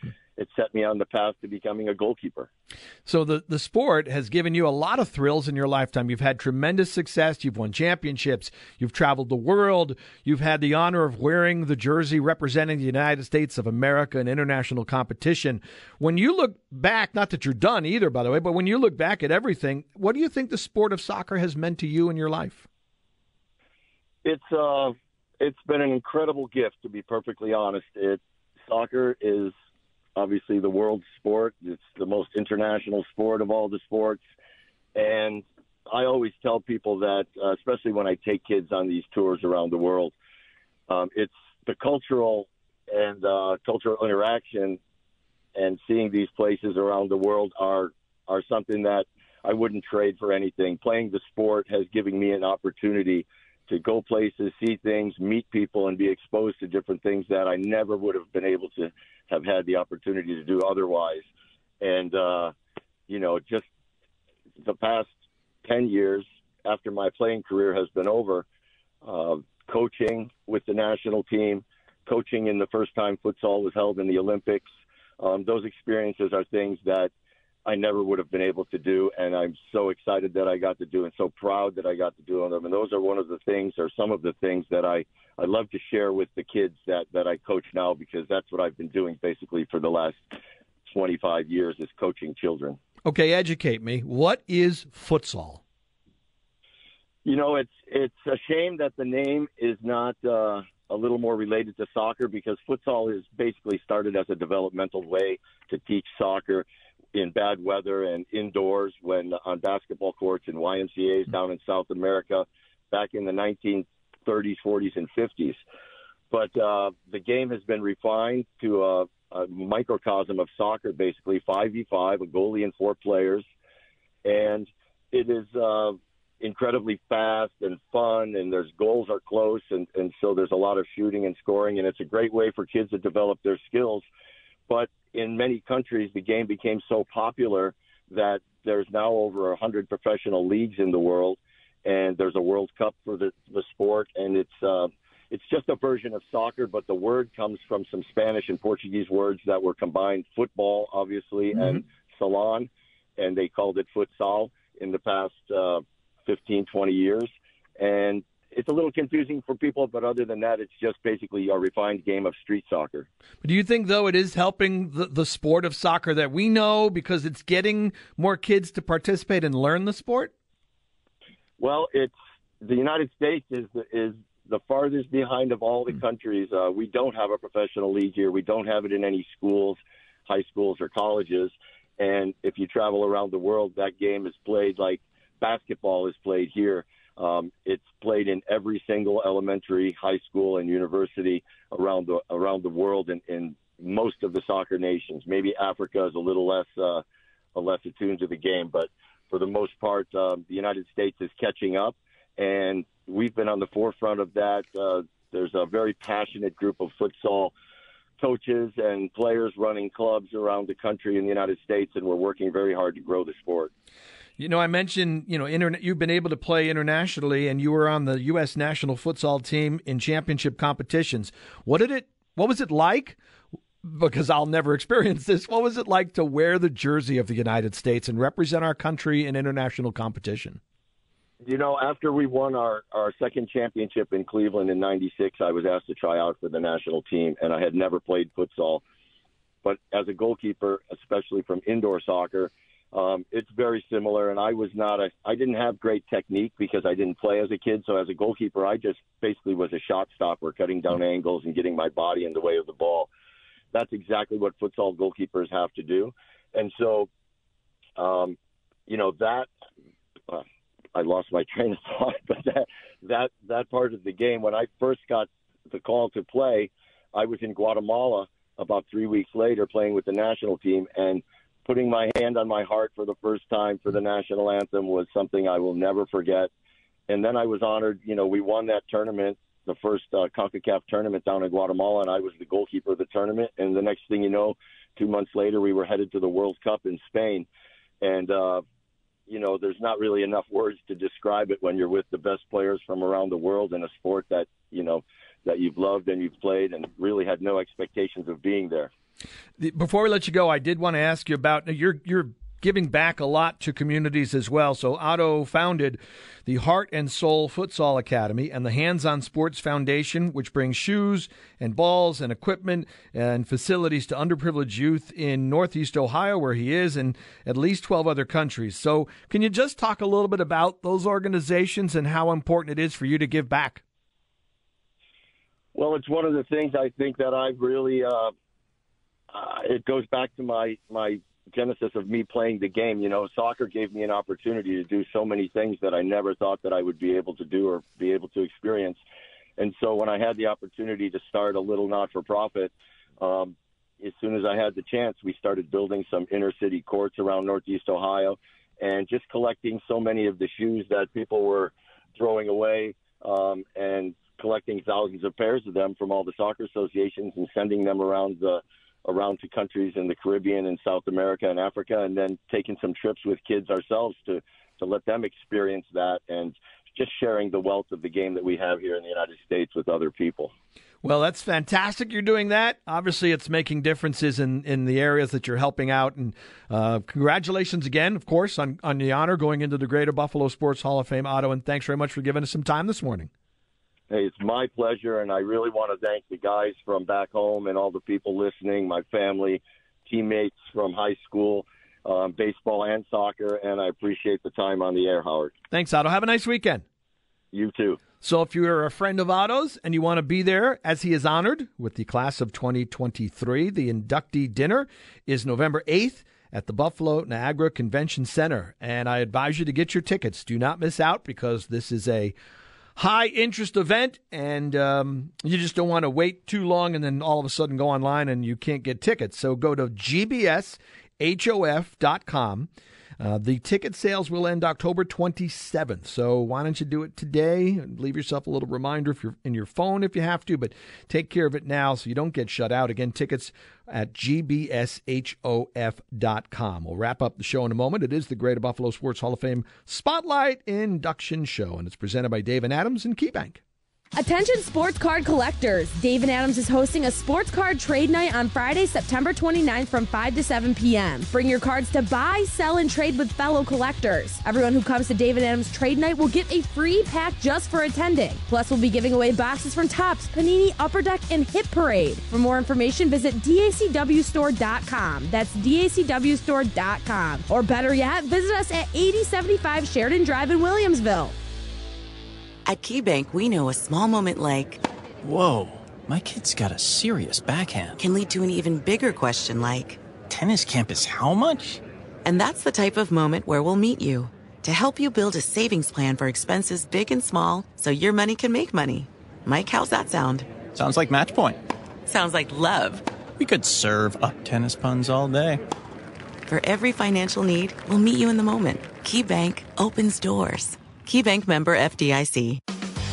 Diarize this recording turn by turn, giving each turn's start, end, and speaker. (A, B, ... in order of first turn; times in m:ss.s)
0:00.4-0:02.5 A
0:03.0-0:22.7 B
0:24.2-0:29.5 A
0:30.2-0:34.2 A
0:35.0-0:40.1 A
0:40.9-0:44.8 A
0:45.6-1:01.2 A
1:01.8-1:02.5 A
1:03.1-1:03.7 A
1:04.6-1:08.4 A
1:09.0-1:17.1 A
1:17.7-1:32.8 A
1:33.0-1:35.6 B
1:37.2-1:55.6 A
1:56.3-2:03.4 A
2:04.2-2:14.0 A
2:14.7-2:43.1 A
2:43.4-2:50.3 B
2:51.6-3:17.0 A
3:17.6-3:27.5 A
3:28.2-3:33.7 A
3:34.4-3:43.2 B
3:43.8-3:50.6 B
3:51.4-3:58.8 A
3:59.6-4:13.1 A
4:13.7-4:17.1 A
4:18.0-4:19.5 A
4:21.0-4:36.5 A
4:37.1-4:47.4 A
4:48.0-4:48.6 A
4:49.3-4:58.9 A
4:59.6-5:23.8 B
5:25.7-5:28.3 A
5:29.3-5:39.0 A
5:39.6-6:10.5 A
6:11.0-6:23.3 B
6:24.1-6:35.5 A
6:35.7-6:36.8 B
6:37.5-6:38.0 A
6:38.2-6:52.4 B
6:53.0-7:02.7 B
7:03.2-7:23.6 B
7:24.1-7:51.3 C
7:52.7-7:54.8 D
7:55.2-7:58.0 E
7:58.0-8:00.0 D
8:00.2-8:01.8 E
8:02.2-8:10.6 D
8:10.6-8:11.6 E
8:12.0-8:13.0 D
8:13.4-8:15.6 E
8:16.5-8:22.6 D